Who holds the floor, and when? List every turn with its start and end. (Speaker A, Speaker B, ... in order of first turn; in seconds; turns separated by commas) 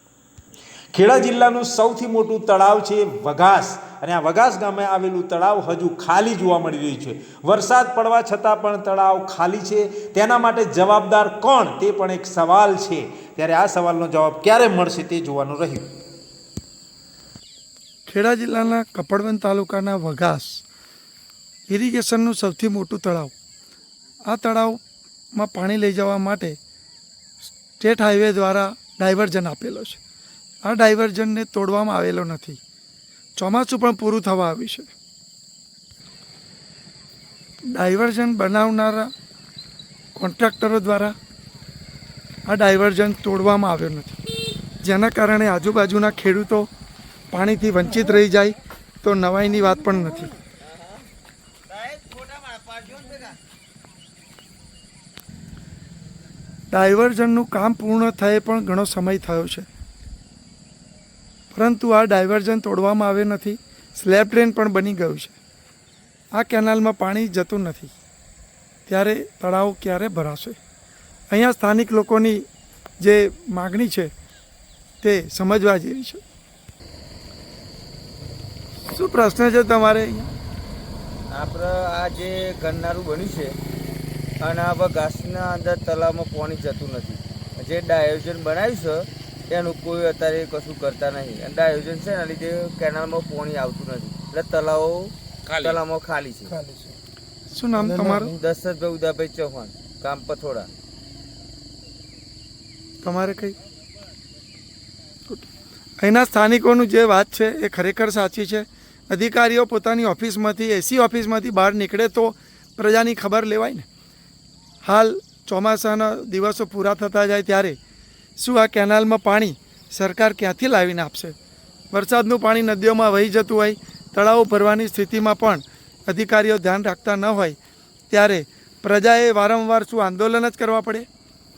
Speaker A: 0.9-15.9, Speaker B: 18.1-20.6, Speaker B: 21.7-23.3, Speaker B: 24.3-24.8, Speaker B: 25.4-26.6, Speaker B: 27.8-30.0, Speaker B: 30.6-32.6, Speaker B: 33.4-34.9, Speaker B: 37.6-39.1, Speaker B: 40.1-41.1, Speaker B: 42.5-44.2, Speaker B: 44.8-46.7, Speaker B: 47.3-50.3, Speaker C: 50.6-51.0, Speaker C: 51.7-53.4, Speaker B: 56.7-59.7, Speaker B: 61.5-65.4, Speaker B: 66.3-67.9, Speaker B: 68.9-70.6, Speaker B: 71.3-72.4, Speaker B: 73.0-74.1, Speaker B: 75.0-76.2, Speaker B: 78.9-80.3, Speaker C: 81.3-83.5, Speaker C: 84.4-96.6, Speaker B: 97.5-98.3, Speaker C: 97.8-100.7, Speaker B: 103.0-103.6, Speaker B: 106.0-113.9, Speaker B: 114.8-117.8, Speaker B: 118.4-121.3, Speaker B: 121.9-127.6, Speaker B: 128.1-131.1